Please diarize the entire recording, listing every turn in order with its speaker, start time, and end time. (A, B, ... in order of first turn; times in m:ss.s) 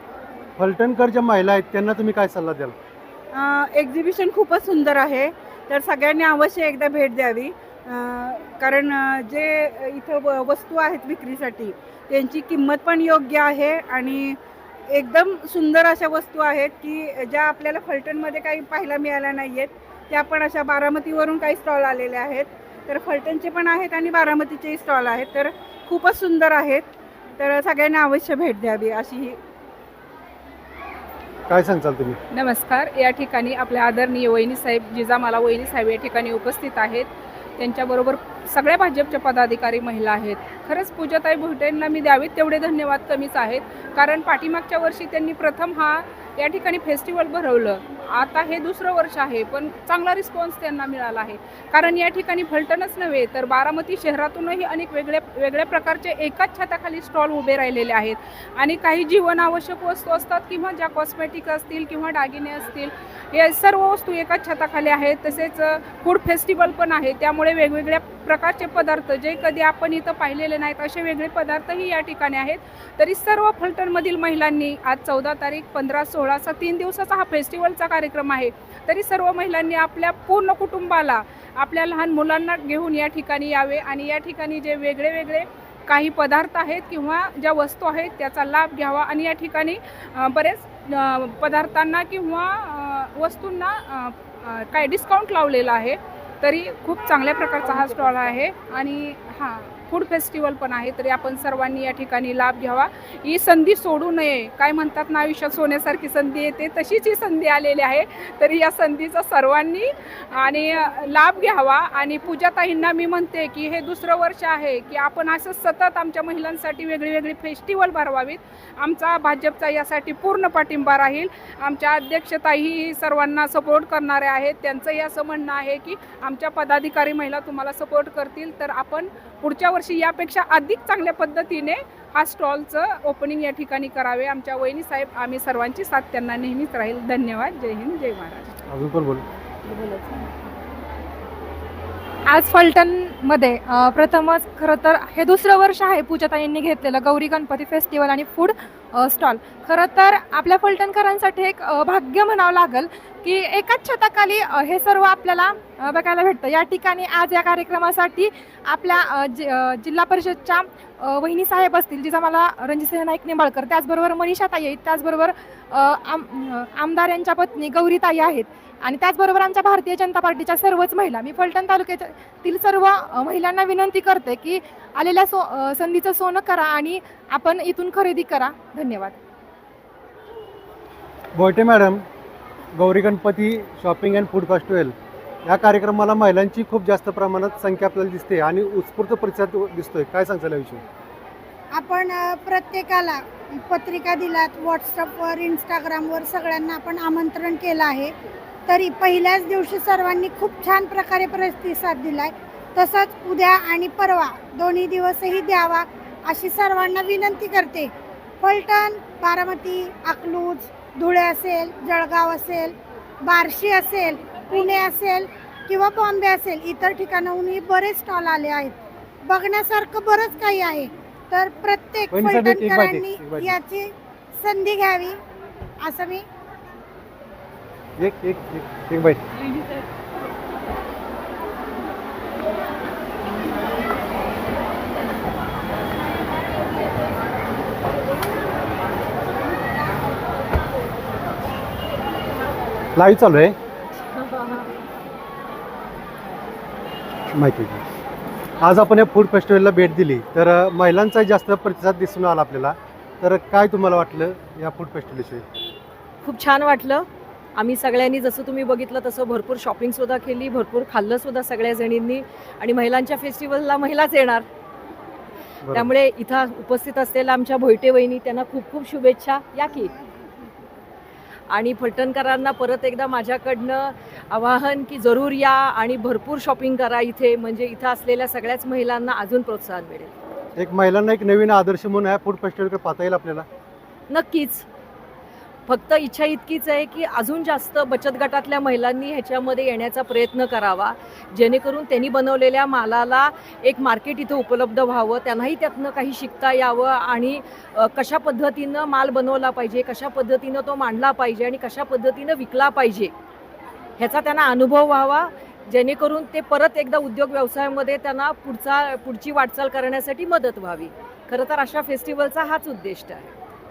0:00.6-0:02.8 A
0:03.3-0:14.4 B
0:14.9-0:29.4 B
0:31.5-0:32.2 A
0:32.3-2:18.6 C
2:18.7-2:19.2 A
2:19.6-2:20.3 D
2:22.2-2:59.2 D
3:01.3-3:02.0 A
3:02.7-3:10.8 A
3:11.7-3:18.1 E
3:18.7-3:27.9 E
3:28.4-3:45.2 E
3:42.1-3:43.6 A
3:45.8-3:46.2 E
3:48.0-3:49.2 A
4:03.0-4:03.5 A
4:07.3-4:07.8 A
4:08.6-4:15.4 A
4:16.2-4:24.4 F
4:25.6-4:25.9 A
4:25.7-4:30.0 F
4:31.5-4:40.1 F
4:40.6-4:43.4 A
4:44.1-4:44.6 F
4:45.7-5:03.1 F
5:04.0-5:13.3 F